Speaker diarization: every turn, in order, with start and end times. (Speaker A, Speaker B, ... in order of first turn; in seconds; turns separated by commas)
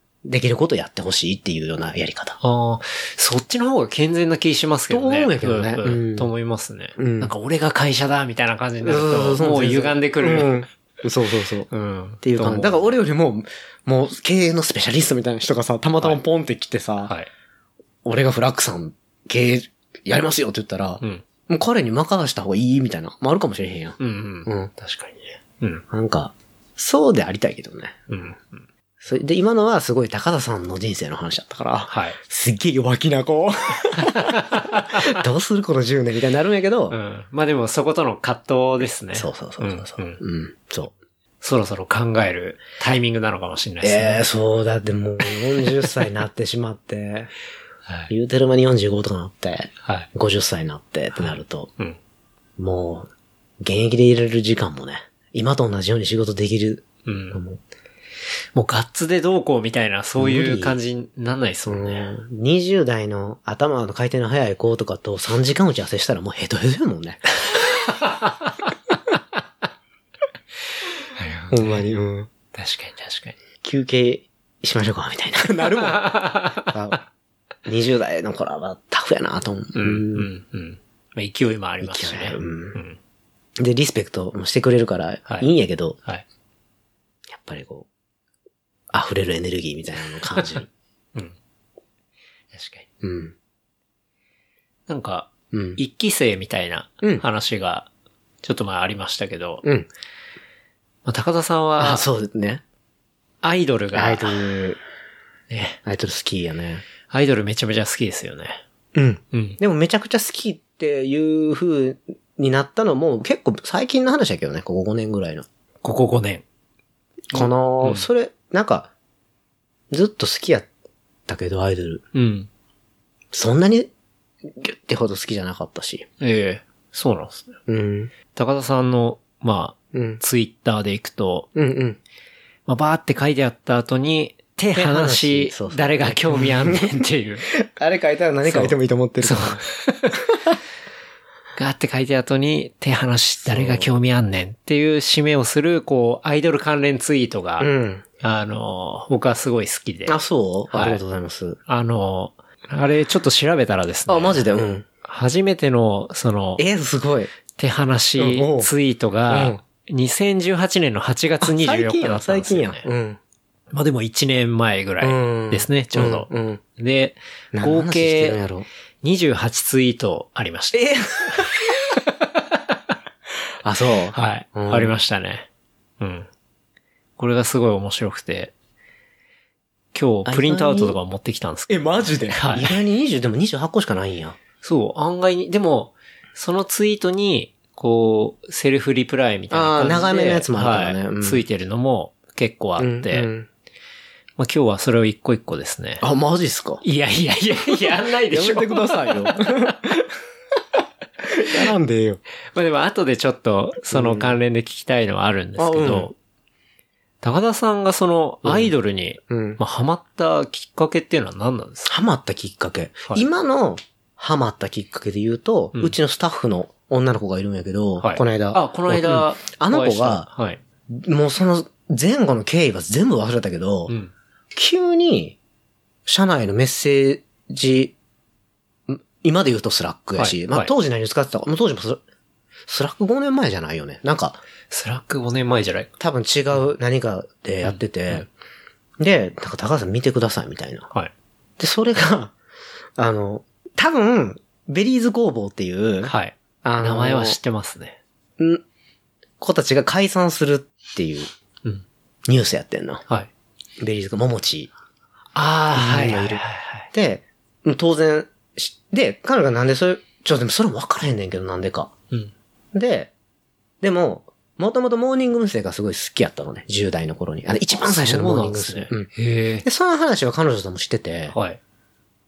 Speaker A: 0.2-2.4, Speaker B: 2.4-10.6, Speaker A: 4.9-6.3, Speaker A: 7.0-7.3, Speaker A: 8.8-11.7, Speaker B: 11.7-12.9, Speaker A: 12.2-17.1, Speaker B: 17.1-17.3, Speaker A: 18.1-24.7, Speaker B: 24.0-25.9, Speaker A: 25.9-28.0, Speaker B: 28.1-28.7, Speaker A: 29.0-37.0, Speaker B: 31.9-32.2, Speaker B: 34.1-35.1, Speaker B: 36.9-40.2, Speaker A: 39.1-40.9, Speaker B: 41.4-44.2, Speaker A: 43.8-47.3, Speaker B: 47.9-48.1, Speaker A: 48.1-51.7, Speaker B: 49.8-50.1, Speaker B: 51.1-52.0, Speaker A: 52.6-53.1, Speaker A: 53.6-57.6, Speaker B: 57.0-57.4, Speaker B: 58.5-62.1, Speaker A: 60.2-60.8, Speaker A: 61.7-67.4, Speaker B: 67.7-68.5, Speaker B: 71.2-71.9, Speaker A: 71.5-72.3, Speaker B: 72.5-73.4, Speaker A: 73.6-77.0, Speaker B: 75.8-76.7, Speaker A: 77.7-80.3, Speaker B: 79.8-83.0, Speaker A: 81.8-82.8, Speaker A: 83.6-86.0, Speaker A: 87.3-87.9, Speaker A: 88.9-90.7, Speaker B: 90.4-90.6, Speaker B: 92.5-92.9, Speaker A: 93.0-93.3, Speaker B: 94.9-97.9, Speaker A: 95.5-95.8, Speaker B: 98.4-99.6, Speaker B: 101.0-102.1, Speaker A: 101.8-102.6, Speaker B: 103.4-104.4, Speaker A: 103.9-104.8, Speaker B: 105.5-105.8, Speaker A: 105.8-106.8, Speaker B: 107.1-108.6, Speaker A: 108.9-115.5, Speaker B: 109.3-109.6, Speaker B: 115.8-116.4, Speaker A: 117.3-118.9, Speaker B: 117.3-118.1, Speaker A: 119.9-120.7, Speaker A: 121.3-122.0, Speaker B: 122.1-122.5, Speaker A: 123.3-123.9, Speaker A: 124.5-126.1, Speaker B: 126.2-127.5, Speaker A: 127.7-128.1, Speaker B: 128.3-131.5, Speaker A: 129.9-130.2, Speaker A: 131.6-132.0, Speaker B: 132.7-137.4, Speaker A: 134.8-139.7, Speaker B: 138.4-140.2, Speaker B: 141.6-147.7, Speaker A: 143.4-143.9, Speaker A: 147.6-148.0, Speaker B: 148.2-150.2, Speaker A: 150.1-151.6, Speaker B: 150.7-151.0, Speaker B: 151.7-154.4, Speaker A: 154.1-154.9, Speaker B: 155.0-156.6, Speaker A: 156.6-157.3, Speaker B: 157.6-162.9, Speaker A: 158.2-158.7, Speaker A: 159.3-159.6, Speaker A: 161.4-163.2, Speaker B: 163.7-168.4, Speaker A: 165.0-166.6, Speaker A: 167.5-168.7, Speaker B: 169.0-172.8, Speaker A: 170.7-171.6, Speaker A: 173.6-174.9, Speaker B: 174.1-175.5, Speaker B: 176.0-176.3, Speaker B: 177.2-178.5, Speaker B: 179.9-182.8, Speaker A: 180.2-181.0, Speaker A: 181.7-184.4, Speaker B: 184.6-193.3, Speaker A: 189.5-191.4, Speaker A: 192.8-193.5, Speaker B: 194.4-196.0, Speaker A: 196.0-196.8, Speaker B: 196.8-199.7, Speaker A: 198.3-200.1, Speaker A: 201.2-202.2, Speaker B: 202.5-206.1, Speaker A: 203.9-204.4, Speaker A: 205.6-206.1, Speaker B: 207.2-211.9, Speaker A: 208.4-208.7, Speaker A: 209.3-209.6, Speaker A: 211.9-220.3, Speaker B: 218.0-220.6, Speaker A: 220.9-224.0, Speaker A: 224.5-225.4, Speaker A: 226.1-227.9, Speaker A: 228.9-232.0, Speaker B: 230.2-230.7, Speaker A: 232.7-234.4, Speaker B: 234.7-235.9, Speaker A: 236.0-238.3, Speaker B: 237.6-238.2, Speaker A: 239.0-240.9, Speaker A: 241.6-242.3, Speaker A: 243.0-247.4, Speaker B: 246.1-248.0, Speaker A: 248.4-248.6, Speaker A: 249.4-251.3, Speaker A: 252.3-253.0, Speaker A: 253.8-254.7, Speaker B: 255.3-256.9, Speaker A: 255.7-261.9, Speaker A: 262.7-263.1, Speaker A: 263.8-269.1, Speaker B: 267.8-269.7, Speaker A: 269.6-271.4, Speaker B: 271.3-271.6